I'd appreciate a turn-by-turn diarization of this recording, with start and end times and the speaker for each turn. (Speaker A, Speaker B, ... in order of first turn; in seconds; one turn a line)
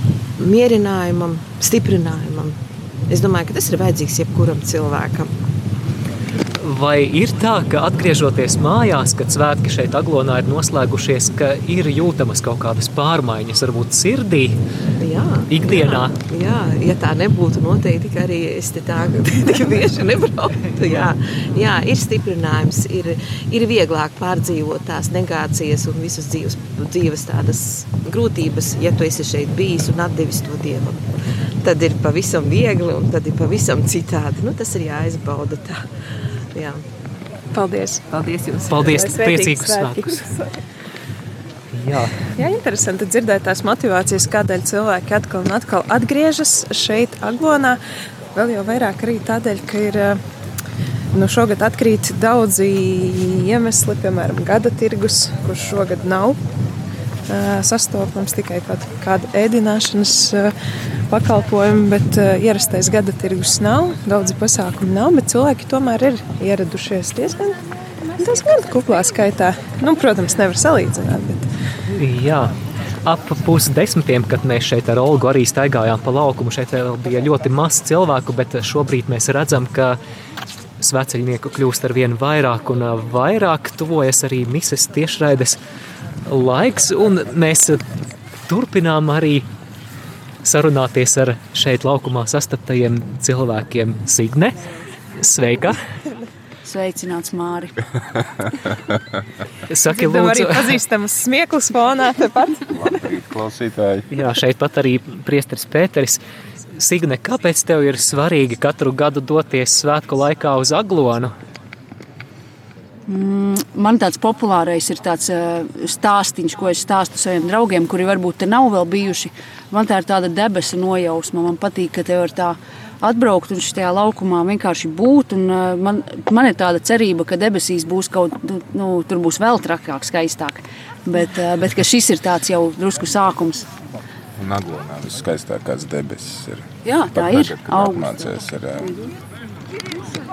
Speaker A: 0.4-2.6
Speaker A: 3.1-5.3
Speaker B: 6.6-14.6
Speaker A: 15.0-31.0
Speaker B: 15.5-16.2
Speaker A: 31.6-35.8
Speaker A: 36.5-36.8
Speaker C: 37.5-38.1
Speaker A: 38.1-39.0
Speaker B: 38.7-40.2
Speaker C: 38.8-40.5
Speaker B: 41.7-42.2
Speaker C: 42.4-47.8
Speaker C: 48.4-50.2
Speaker C: 51.1-56.4
Speaker C: 57.3-60.5
Speaker C: 61.1-67.6
Speaker C: 68.2-71.5
Speaker B: 71.9-72.5
Speaker B: 73.0-80.0
Speaker B: 80.8-85.6
Speaker B: 86.3-87.8
Speaker B: 88.5-89.5
Speaker B: 90.4-94.5
Speaker B: 95.2-95.8
Speaker D: 96.7-97.8
Speaker B: 99.7-100.7
Speaker C: 99.9-102.7
Speaker E: 102.8-104.0
Speaker B: 104.1-106.2
Speaker B: 106.8-111.3
Speaker D: 113.1-133.7
Speaker E: 134.4-138.9
Speaker D: 136.8-138.2